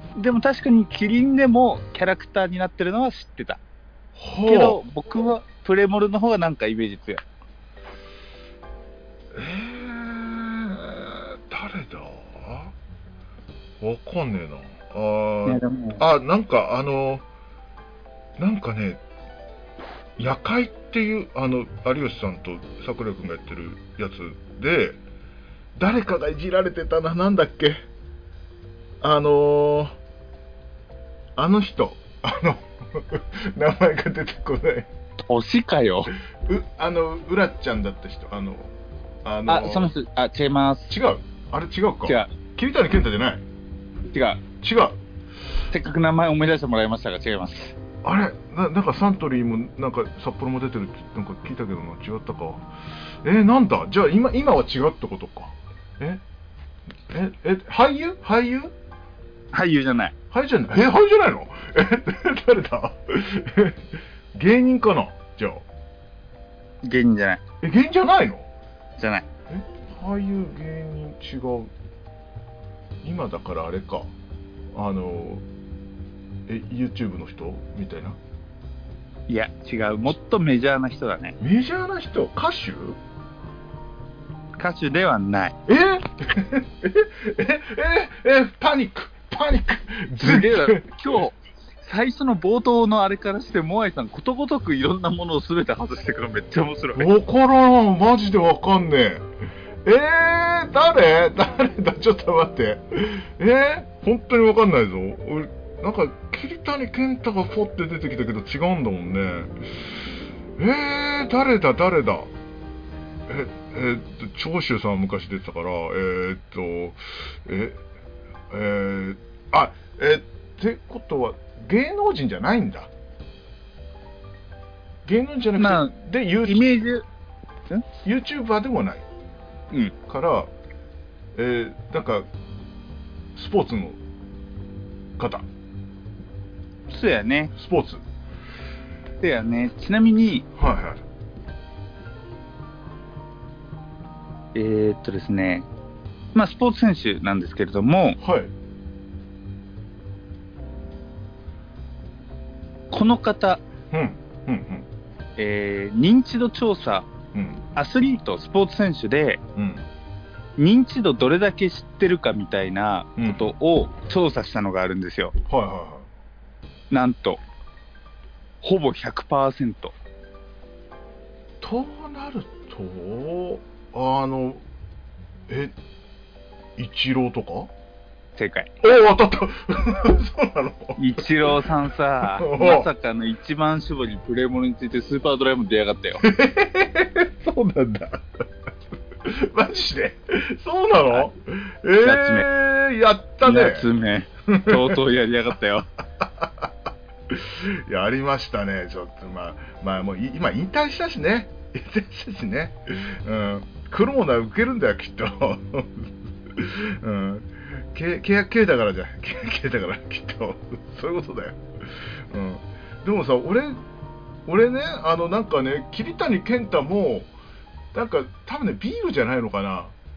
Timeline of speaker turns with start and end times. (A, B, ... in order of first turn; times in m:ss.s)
0:00.2-0:03.6 A
0:04.1-0:04.8 B
0:04.4-0:07.2 A
0:09.3-0:12.7 B
0:13.8-0:17.2 B
0:15.4-0:16.0 A
0:18.4-0:19.0 B
0:20.2-0:25.0 B
0:25.8-0:27.8 B
0:29.0-0:30.0 B
0:31.4-0:34.9 B
0:35.3-0:36.1 A
0:36.4-0:38.7 B
0:39.2-0:39.9 B
0:39.5-0:41.0 A
0:40.9-0:43.4 B
0:42.0-0:42.3 A
0:44.1-0:44.4 A
0:44.6-0:45.0 B
0:45.7-0:47.8 A
0:48.0-0:56.2 B
0:57.1-0:58.7 B
0:59.5-1:00.1 A
1:00.3-1:05.6 B
1:06.8-1:07.4 A
1:07.6-1:08.5 B
1:09.0-1:09.2 A
1:09.5-1:11.7 B
1:13.0-1:14.1 B
1:14.7-1:15.4 B
1:16.5-1:18.2 B
1:19.3-1:21.4 A
1:21.4-1:23.0 B
1:24.6-1:25.6 A
1:25.6-1:31.1 B
1:30.2-1:37.1 A
1:36.9-1:39.2 B
1:39.8-1:49.9 B
1:50.6-1:52.3 B
1:53.3-1:57.8 B
1:58.5-2:02.9 B
2:05.0-2:06.8 B
2:05.6-2:07.0 A
2:08.0-2:09.0 B
2:10.1-2:10.5 B
2:11.3-2:12.2 B
2:13.3-2:14.0 B
2:15.2-2:15.4 B
2:16.9-2:17.5 A
2:17.5-2:18.0 B
2:19.2-2:20.4 A
2:20.5-2:21.0 B
2:24.5-2:25.7 A
2:26.3-2:28.2 A
2:28.2-2:28.5 B
2:32.9-2:33.6 A
2:33.9-2:34.8 B
2:35.4-2:37.1 A
2:37.3-2:37.6 B
2:37.8-2:39.4 A
2:39.6-2:39.8 B
2:40.6-2:45.3 A
2:43.2-2:43.5 B
2:45.4-2:46.1 B
2:46.9-2:47.4 A
2:48.6-2:49.9 A
2:51.6-2:54.6 B
2:55.5-2:55.7 B
2:56.8-2:57.7 B
2:58.4-2:58.7 A
2:58.8-3:02.9 B
3:01.0-3:06.2 A
3:06.2-3:08.3 B
3:09.2-3:13.9 B
3:12.0-3:12.5 A
3:13.4-3:15.9 A
3:14.5-3:15.0 B
3:16.2-3:16.7 B
3:17.3-3:33.8 B
3:34.4-3:37.3 B
3:37.9-3:39.9 B